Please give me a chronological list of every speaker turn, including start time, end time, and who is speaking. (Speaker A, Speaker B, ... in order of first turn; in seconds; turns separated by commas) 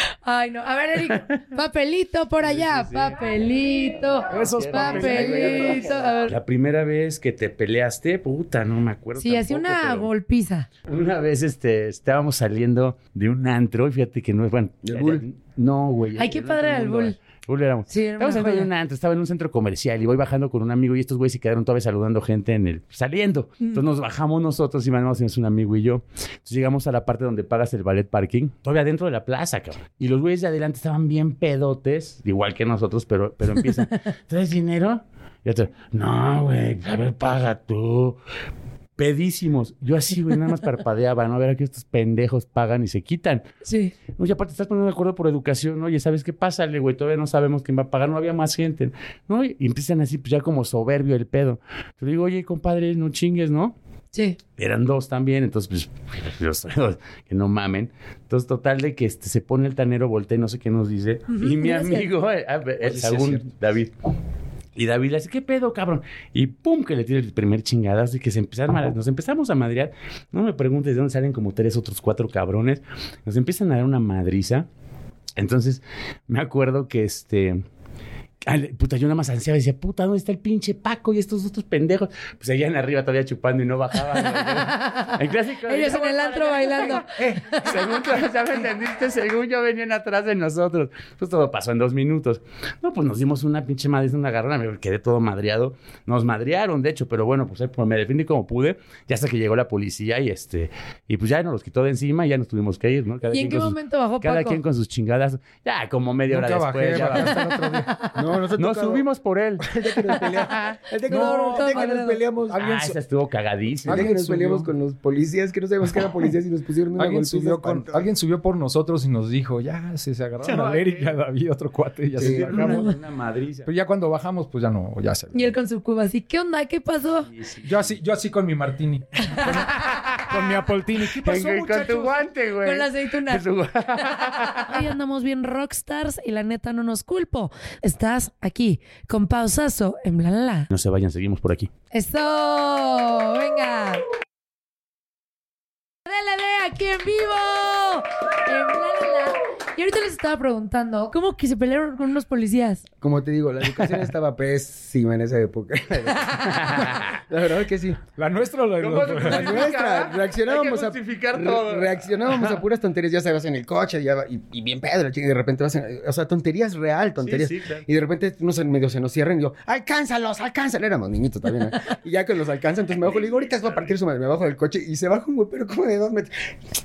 Speaker A: 0.2-6.4, Speaker B: 1.0-1.4, Speaker B: 2.4-3.2, Speaker C: 4.3-5.7, Speaker B: 4.3-10.1, Speaker D: 5.0-6.2, Speaker A: 9.2-10.7, Speaker B: 10.9-38.2, Speaker D: 14.8-15.2, Speaker A: 16.2-17.1, Speaker A: 17.9-18.7, Speaker B: 39.0-43.4, Speaker A: 43.6-43.9, Speaker B: 44.1-53.7, Speaker A: 54.1-54.4, Speaker B: 54.6-63.9, Speaker A: 61.3-62.1, Speaker C: 62.8-63.4, Speaker B: 64.8-74.7, Speaker B: 75.4-77.6, Speaker B: 78.4-107.4, Speaker A: 84.4-85.2, Speaker A: 85.7-87.7, Speaker A: 103.3-104.6, Speaker C: 106.3-107.9, Speaker A: 107.3-108.2, Speaker D: 108.1-109.0, Speaker B: 108.5-110.8, Speaker D: 109.6-112.6, Speaker C: 111.0-111.9, Speaker A: 111.1-112.2, Speaker C: 112.5-113.0, Speaker B: 112.5-114.1, Speaker C: 113.8-114.7, Speaker D: 113.9-118.0, Speaker C: 117.0-122.9, Speaker B: 120.4-121.2, Speaker D: 122.2-122.7, Speaker B: 122.2-123.7, Speaker A: 122.6-122.9, Speaker C: 123.7-125.5, Speaker A: 125.3-127.3, Speaker B: 127.2-127.9, Speaker C: 127.6-132.3, Speaker B: 129.7-130.4, Speaker B: 131.1-134.8, Speaker A: 132.6-133.4, Speaker A: 134.1-140.7, Speaker B: 140.7-141.7, Speaker A: 141.9-144.0, Speaker A: 146.1-152.8, Speaker D: 153.0-158.0, Speaker B: 156.4-157.1, Speaker C: 158.2-159.7, Speaker B: 158.8-162.6, Speaker D: 159.2-176.3, Speaker B: 167.2-167.8, Speaker B: 173.1-173.9